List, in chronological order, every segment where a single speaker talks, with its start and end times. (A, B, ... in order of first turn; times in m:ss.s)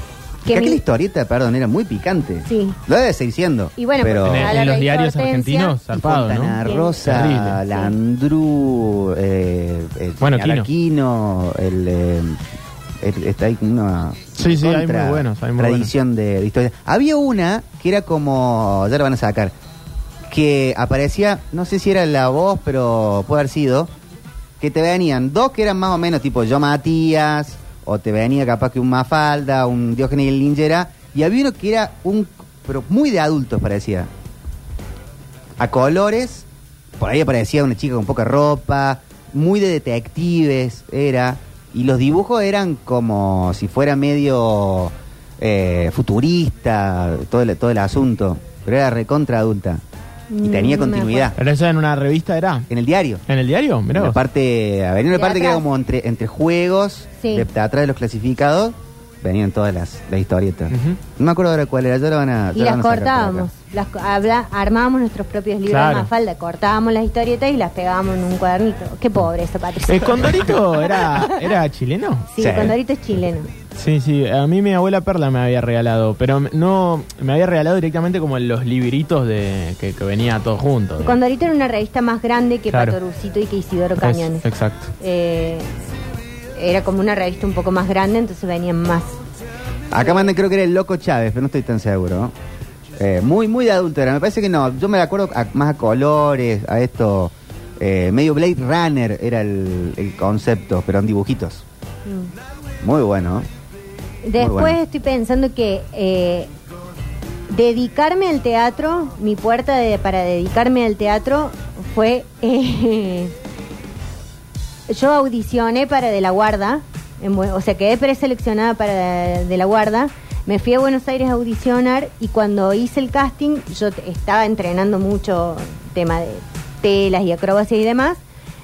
0:00.4-0:00.8 A
0:00.5-0:04.6 B
0:02.4-0:02.8 A
0:03.8-0:05.8 A
0:04.2-0:07.6 C
0:05.9-0:12.4 B
0:06.6-0:07.9 A
0:10.2-0:10.7 C
0:13.0-0:19.5 B
0:14.4-0:15.9 C
0:20.3-0:23.9 B
0:24.6-0:34.1 B
0:35.6-0:36.4 B
0:37.0-0:49.8 B
0:50.3-0:51.3 A
0:50.4-0:51.4 B
0:51.4-0:52.7 C
0:52.7-0:53.2 B
0:53.3-0:54.2 C
0:53.9-1:03.5 B
0:55.1-0:55.6 A
0:57.2-0:57.5 A
1:00.7-1:01.0 C
1:02.5-1:11.4 A
1:05.6-1:06.1 C
1:09.8-1:12.3 C
1:12.3-1:13.5 A
1:12.4-1:12.8 B
1:13.8-1:21.2 C
1:21.0-1:24.5 A
1:22.7-1:23.0 C
1:24.0-1:24.9 C
1:25.0-1:25.7 A
1:26.6-1:29.2 A
1:29.9-1:32.3 B
1:30.0-1:30.3 A
1:33.0-1:41.6 B
1:42.0-1:42.3 A
1:42.8-1:43.5 B
1:44.2-1:46.5 A
1:44.4-1:44.8 B
1:47.5-1:53.3 A
1:54.9-2:08.2 A